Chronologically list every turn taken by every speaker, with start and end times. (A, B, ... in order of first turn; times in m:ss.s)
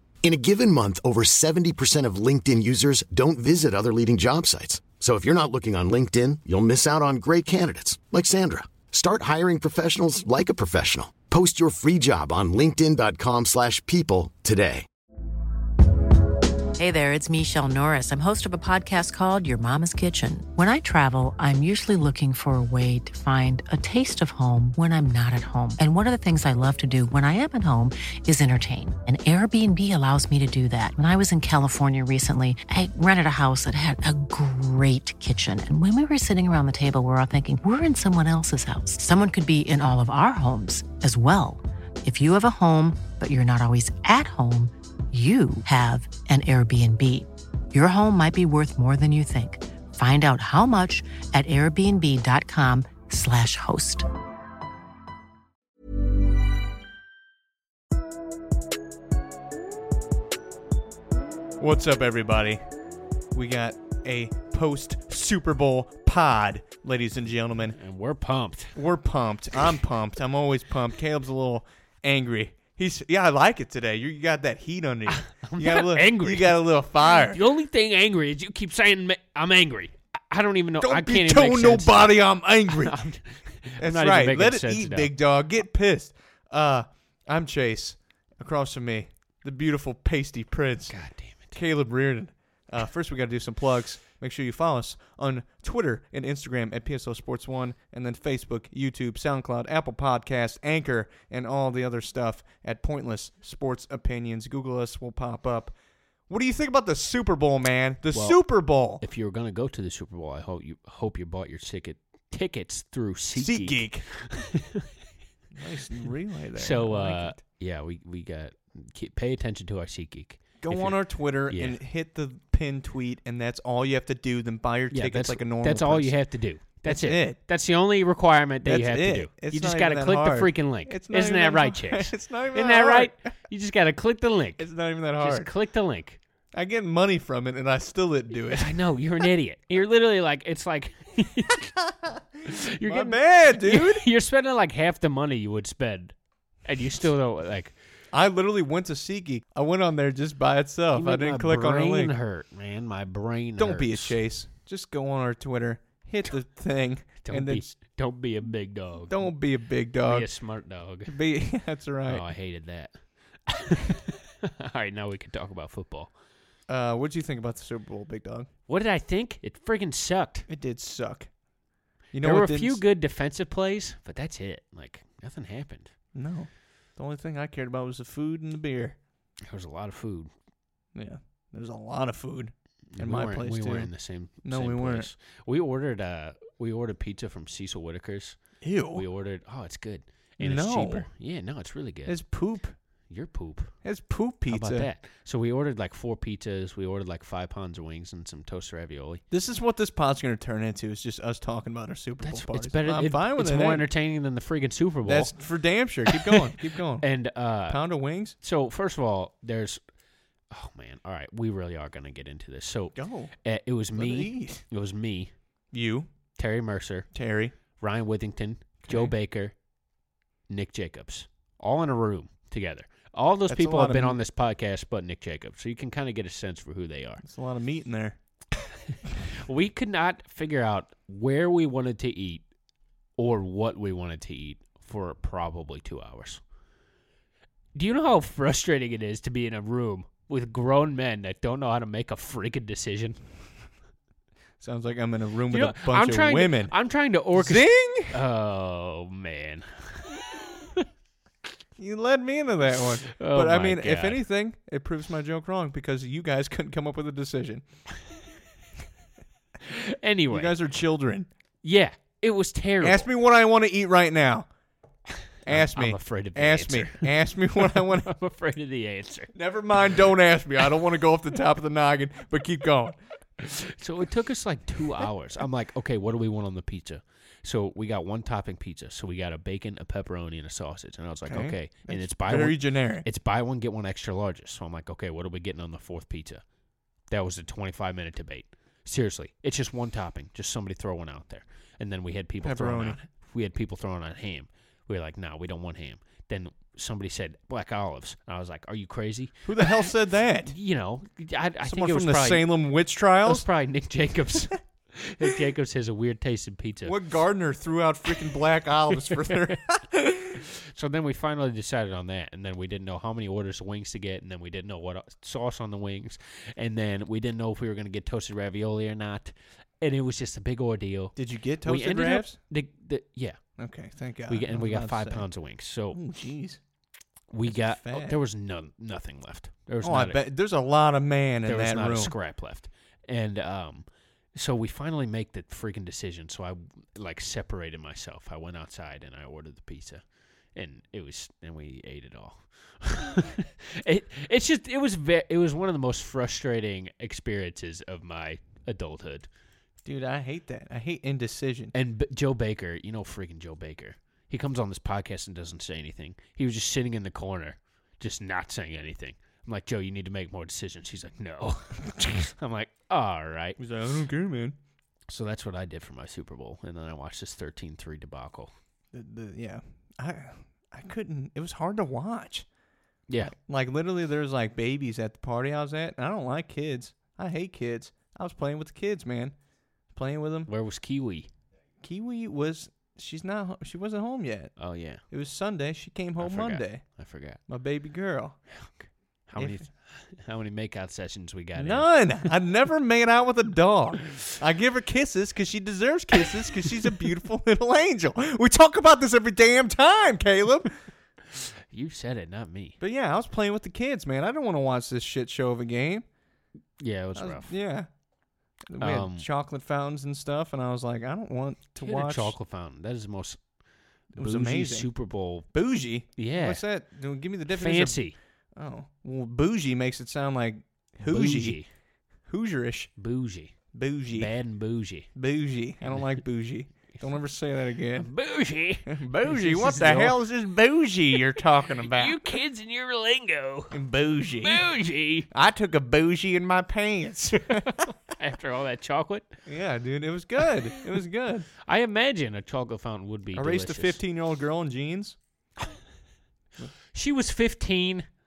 0:00.2-0:14.8 A
0:16.8-0:54.0 B
1:01.6-1:02.6 C
1:03.3-1:07.8 C
1:07.7-1:08.7 D
1:08.8-1:17.4 C
1:15.1-1:25.1 D
1:20.8-1:23.0 C
1:23.8-1:31.0 C
1:30.9-1:31.5 D
1:31.5-1:45.8 C
1:46.3-1:49.0 C
1:48.1-1:54.9 D
1:53.4-1:54.0 C
1:55.5-1:57.4 C
1:56.6-2:01.8 D
2:00.6-2:06.1 C
2:04.9-2:16.2 D
2:06.8-2:07.4 C
2:08.6-2:13.1 C
2:14.6-2:15.5 C
2:16.5-2:18.8 C
2:18.5-2:21.9 D
2:22.4-2:26.1 D
2:22.8-2:24.0 C
2:26.6-2:27.8 D
2:28.1-2:32.1 C
2:30.9-2:34.1 D
2:33.6-2:37.7 C
2:37.2-2:39.3 D
2:39.1-2:40.3 C
2:40.0-2:41.2 D
2:41.1-2:42.2 C
2:42.1-2:42.9 D
2:43.5-2:46.1 D
2:46.7-2:48.5 C
2:48.7-2:50.5 D
2:50.5-2:51.3 C
2:52.1-2:52.8 C
2:52.2-2:55.9 D
2:56.1-2:59.0 C
2:59.4-3:00.3 D
3:00.9-3:03.9 C
3:02.9-3:08.4 D
3:04.4-3:05.1 C
3:08.6-3:09.0 C
3:08.9-3:12.2 D
3:10.4-3:11.1 C
3:12.1-3:12.8 C
3:13.1-3:13.7 D
3:13.8-3:14.9 C
3:14.5-3:19.2 D
3:19.3-3:23.8 C
3:22.2-3:25.3 D
3:25.0-3:27.0 C
3:26.1-3:27.8 D
3:27.7-3:28.4 C
3:28.4-3:29.8 D
3:30.5-3:35.3 D
3:32.9-3:33.3 C
3:34.0-3:34.6 C
3:35.7-3:36.1 C
3:36.4-3:37.1 D
3:37.1-3:37.5 C
3:37.8-3:39.5 D
3:38.8-3:39.1 C
3:40.5-3:47.2 D
3:43.5-3:44.2 C
3:47.2-3:48.2 C
3:49.3-3:52.4 D
3:53.2-3:56.4 D
3:57.8-4:03.2 D
4:04.6-4:06.7 C
4:05.5-4:10.8 D
4:07.4-4:08.2 C
4:11.8-4:17.6 C
4:13.1-4:14.2 D
4:19.6-4:20.6 D
4:20.3-4:21.3 C
4:21.6-4:23.1 D
4:22.8-4:24.5 C
4:25.4-4:28.1 C
4:25.4-4:29.3 D
4:29.3-4:33.0 C
4:33.4-4:46.4 D
4:41.3-4:43.0 C
4:47.1-4:59.9 D
4:52.4-4:53.0 C
4:59.4-5:00.5 C
5:00.5-5:02.6 D
5:01.6-5:03.4 C
5:03.2-5:07.0 D
5:06.8-5:10.4 C
5:09.1-5:09.5 D
5:10.4-5:23.4 D
5:21.2-5:22.4 C
5:23.6-5:25.2 C
5:24.3-5:26.0 D
5:25.9-5:26.6 C
5:27.3-5:30.2 D
5:27.4-5:28.2 C
5:29.8-5:32.1 C
5:31.5-5:40.0 D
5:40.6-5:49.3 D
5:49.8-5:51.7 C
5:51.7-6:03.6 D
6:03.6-6:04.6 C
6:05.1-6:08.5 D
6:08.9-6:12.4 C
6:13.1-6:13.3 D
6:13.2-6:19.3 C
6:19.9-6:20.5 C
6:20.5-6:21.3 D
6:21.8-6:24.5 C
6:24.6-6:25.0 D
6:25.1-6:26.8 C
6:26.2-6:27.4 D
6:27.5-6:28.4 C
6:28.5-6:31.9 D
6:29.4-6:29.6 C
6:31.6-6:40.7 C
6:41.3-6:42.8 D
6:42.8-6:46.0 C
6:46.8-6:47.5 D
6:47.2-6:47.9 C
6:48.7-6:52.3 C
6:48.8-6:49.3 D
6:51.8-6:53.4 D
6:54.1-6:55.5 D
6:54.2-6:54.9 C
6:55.5-6:58.0 C
6:56.2-6:56.6 D
6:57.5-6:58.2 D
6:58.6-7:01.6 C
7:01.0-7:01.7 D
7:02.3-7:02.9 C
7:03.0-7:03.6 D
7:03.7-7:04.3 C
7:04.1-7:05.1 D
7:05.2-7:08.1 C
7:05.8-7:06.2 D
7:08.0-7:10.2 D
7:08.9-7:12.2 C
7:11.8-7:13.8 D
7:13.7-7:14.6 C
7:14.4-7:15.3 D
7:15.3-7:17.9 C
7:17.6-7:19.4 D
7:19.4-7:21.4 C
7:21.6-7:24.0 D
7:23.3-7:25.2 C
7:26.9-7:28.1 D